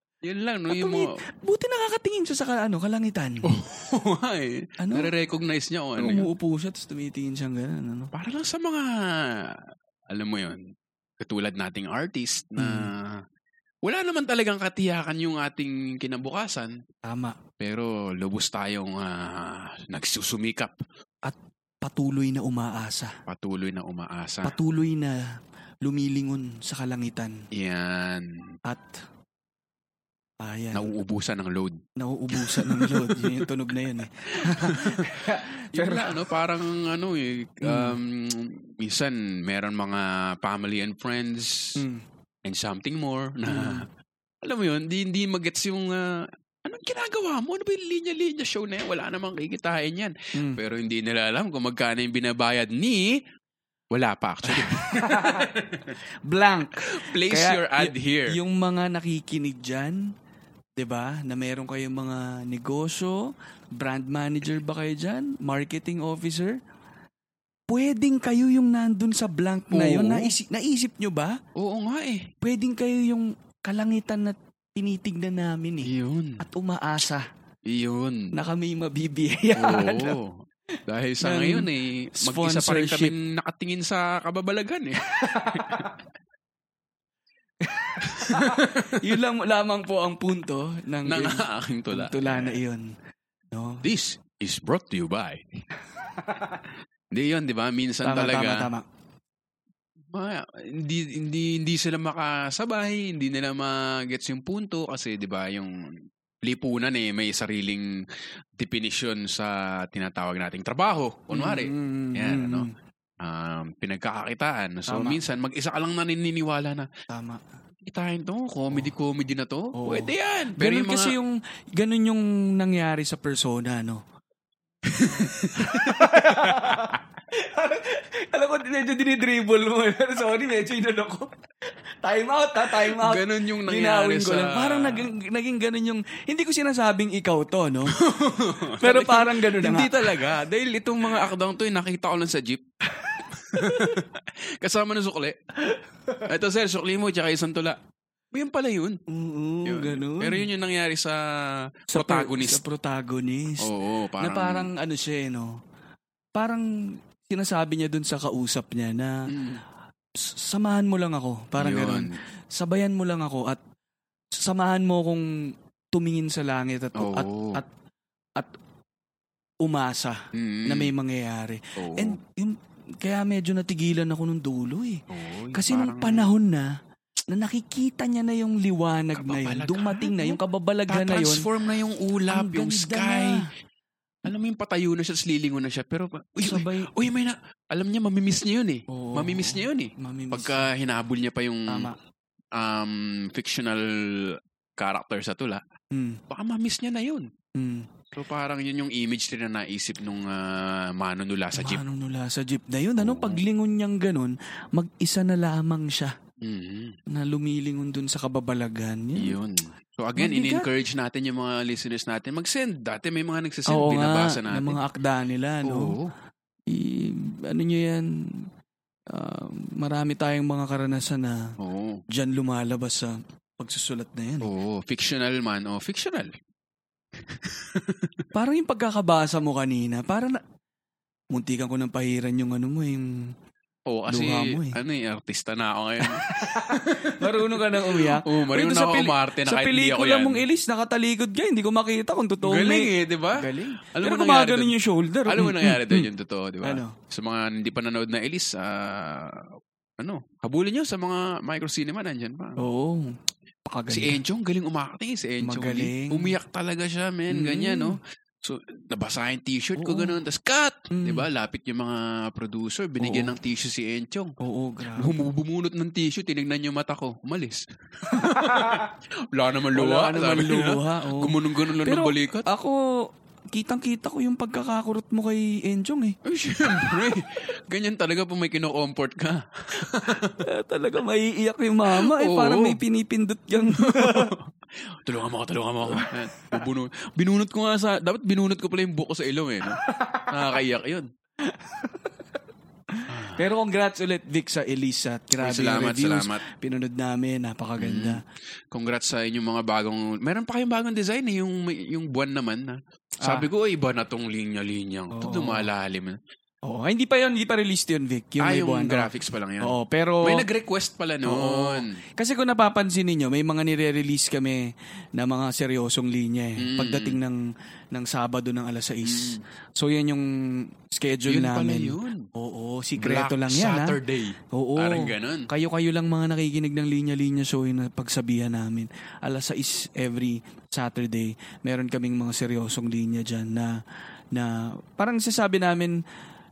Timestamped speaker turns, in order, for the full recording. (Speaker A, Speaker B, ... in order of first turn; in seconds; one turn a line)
Speaker A: 0.2-1.1
Speaker B: 0.7-3.5
Speaker A: 3.4-6.3
Speaker B: 4.8-5.1
Speaker B: 6.0-8.1
Speaker A: 8.1-10.6
Speaker A: 11.2-13.2
Speaker B: 12.6-12.9
Speaker A: 13.8-16.8
Speaker B: 17.1-17.4
Speaker A: 17.6-20.8
Speaker B: 21.2-23.2
Speaker A: 23.3-24.6
Speaker B: 24.4-25.3
Speaker B: 25.8-27.4
Speaker A: 27.5-28.3
Speaker B: 28.7-29.0
Speaker B: 30.4-30.9
Speaker A: 30.7-31.8
Speaker B: 32.0-36.3
Speaker A: 32.3-33.5
Speaker A: 34.3-41.8
Speaker B: 37.6-38.0
Speaker B: 41.8-42.0
Speaker A: 42.4-43.9
Speaker B: 43.5-43.9
Speaker A: 44.4-53.2
Speaker A: 53.9-56.0
Speaker B: 54.4-55.5
Speaker B: 56.2-60.0
Speaker A: 56.8-58.4
Speaker B: 60.8-66.6
Speaker B: 67.7-71.4
Speaker A: 69.7-70.3
Speaker A: 71.5-72.3
Speaker B: 72.4-77.3
Speaker A: 75.8-76.4
Speaker A: 77.7-78.3
Speaker B: 78.3-80.2
Speaker A: 79.6-85.9
Speaker B: 81.2-83.1
Speaker B: 85.0-86.0
Speaker B: 87.6-92.9
Speaker A: 88.1-89.2
Speaker A: 91.1-92.6
Speaker B: 93.5-93.9
Speaker A: 93.8-95.7
Speaker B: 96.0-96.6
Speaker A: 97.1-98.7
Speaker B: 98.0-98.8
Speaker A: 100.1-105.8
Speaker A: 106.4-112.7
Speaker B: 111.3-112.7
Speaker A: 113.2-116.9
Speaker B: 114.9-115.2
Speaker B: 117.1-117.4
Speaker A: 117.8-121.1
Speaker B: 119.7-124.0
Speaker A: 124.9-127.0
Speaker B: 125.0-131.3
Speaker B: 132.0-138.0
Speaker A: 132.7-135.1
Speaker A: 137.9-142.6
Speaker B: 138.8-140.3
Speaker B: 142.9-144.0
Speaker A: 143.3-145.4
Speaker B: 145.6-146.3
Speaker A: 146.2-147.8
Speaker A: 148.3-149.0
Speaker B: 149.1-150.5
Speaker A: 149.6-152.6
Speaker B: 151.9-155.6
Speaker A: 153.6-154.7
Speaker B: 156.4-156.7
Speaker B: 157.2-159.3
Speaker A: 159.3-159.6
Speaker B: 160.2-163.6
Speaker A: 161.6-162.2
Speaker B: 164.3-165.3
Speaker B: 165.9-167.7
Speaker A: 166.9-167.6
Speaker B: 169.6-176.7
Speaker A: 170.3-170.9
Speaker A: 171.8-172.2
Speaker A: 175.1-176.3
Speaker B: 177.3-181.4
Speaker A: 179.1-183.4
Speaker B: 182.3-183.4
Speaker A: 184.2-191.9
Speaker B: 186.4-186.9
Speaker B: 188.9-190.7
Speaker B: 191.7-192.0
Speaker A: 192.5-195.6
Speaker B: 195.9-196.2
Speaker A: 196.3-197.3
Speaker B: 197.6-197.9
Speaker A: 198.1-201.8
Speaker B: 201.6-206.1
Speaker A: 203.0-203.4
Speaker A: 206.4-207.0
Speaker B: 207.1-209.4
Speaker A: 209.2-214.8
Speaker B: 210.2-210.7
Speaker B: 213.7-215.9
Speaker A: 215.6-216.1
Speaker B: 216.7-218.4
Speaker B: 219.1-221.5
Speaker A: 221.6-222.0
Speaker B: 222.1-224.5
Speaker A: 224.4-226.3
Speaker A: 227.2-228.2
Speaker B: 228.3-230.4
Speaker B: 231.3-233.1
Speaker A: 233.9-240.4
Speaker B: 234.1-234.8
Speaker B: 236.0-246.1
Speaker A: 242.4-252.6
Speaker B: 246.6-246.9
Speaker B: 252.6-253.1
Speaker B: 253.7-254.2
Speaker A: 253.9-264.3
Speaker B: 255.4-256.4
Speaker B: 257.3-258.0
Speaker B: 259.8-260.2
Speaker B: 260.9-261.3
Speaker B: 263.0-263.4
Speaker B: 264.4-265.2
Speaker A: 265.0-272.5
Speaker B: 268.1-268.9
Speaker B: 269.7-272.9
Speaker B: 273.5-277.2
Speaker A: 276.2-280.4
Speaker B: 280.2-284.3
Speaker A: 281.9-282.8
Speaker A: 283.8-291.1
Speaker B: 285.9-286.6
Speaker B: 289.8-290.3
Speaker B: 291.4-292.2
Speaker B: 292.9-298.2
Speaker A: 293.1-293.4
Speaker A: 295.4-296.4
Speaker A: 297.8-306.2
Speaker B: 303.2-303.5
Speaker B: 305.1-305.7
Speaker B: 306.7-309.1
Speaker A: 308.4-312.0
Speaker B: 309.6-310.4
Speaker B: 311.2-324.0
Speaker A: 316.6-317.2
Speaker A: 319.1-319.4
Speaker A: 321.2-322.3
Speaker A: 323.0-325.5
Speaker B: 324.5-333.8
Speaker B: 334.3-336.0